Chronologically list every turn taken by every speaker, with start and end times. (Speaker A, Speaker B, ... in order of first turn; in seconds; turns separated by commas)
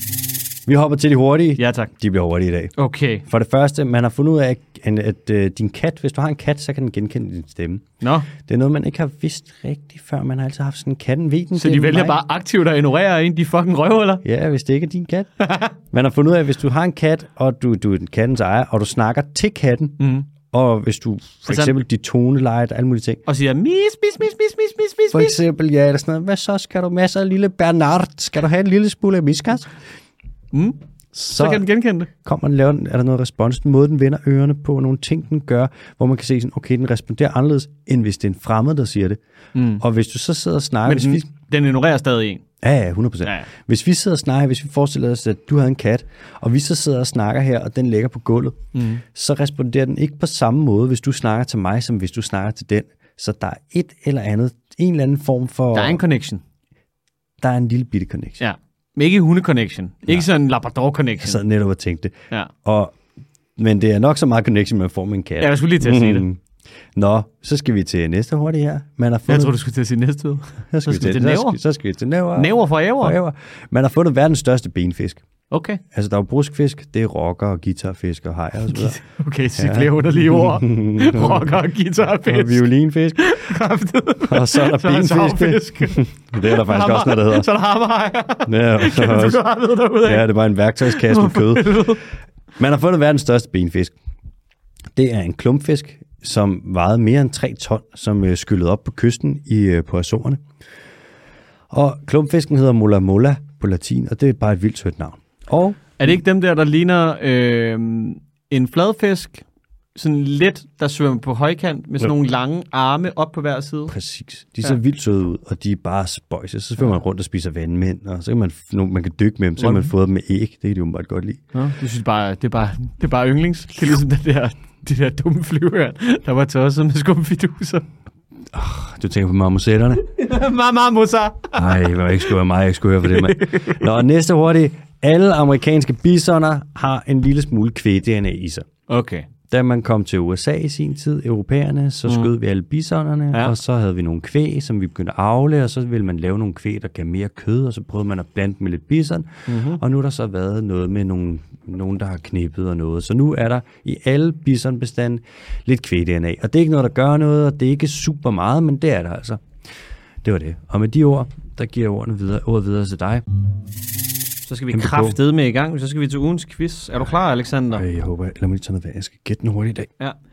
Speaker A: 0.7-12.2, Speaker B: 1.6-1.9, Speaker B: 2.8-3.2, Speaker B: 8.0-8.3, Speaker B: 11.6-14.2, Speaker A: 14.2-15.3, Speaker B: 15.4-15.7, Speaker A: 15.9-23.2, Speaker B: 20.0-20.3, Speaker B: 21.5-21.7, Speaker B: 23.3-25.4, Speaker A: 25.1-29.7, Speaker B: 30.5-30.8, Speaker A: 31.1-39.2, Speaker B: 31.4-32.1, Speaker B: 39.5-39.8, Speaker A: 39.8-41.3, Speaker B: 40.9-42.4, Speaker A: 42.6-56.0, Speaker B: 48.8-49.0, Speaker B: 55.7-56.4, Speaker A: 57.4-58.4, Speaker B: 58.4-61.4, Speaker A: 61.2-63.0, Speaker A: 63.6-66.4, Speaker B: 65.4-66.3, Speaker A: 67.0-69.5, Speaker B: 69.3-71.6, Speaker A: 70.7-75.2, Speaker B: 72.4-73.2, Speaker B: 75.5-75.8, Speaker A: 75.9-79.0, Speaker B: 78.7-82.6, Speaker A: 79.6-81.5, Speaker A: 82.2-83.3, Speaker B: 83.2-90.3, Speaker A: 84.3-87.5, Speaker A: 88.5-89.4, Speaker A: 90.0-92.0, Speaker B: 90.8-92.0, Speaker A: 92.6-94.0, Speaker A: 95.0-100.4, Speaker A: 101.7-105.8, Speaker B: 106.0-113.9, Speaker A: 113.9-121.4, Speaker B: 119.6-119.9, Speaker B: 121.5-127.8, Speaker A: 128.5-130.0, Speaker B: 130.0-132.0, Speaker A: 131.6-138.7, Speaker B: 133.0-133.9, Speaker B: 138.9-139.3, Speaker A: 139.5-159.4, Speaker B: 149.5-149.8, Speaker A: 160.2-163.2, Speaker B: 164.5-167.8, Speaker A: 164.7-165.2, Speaker A: 167.7-169.9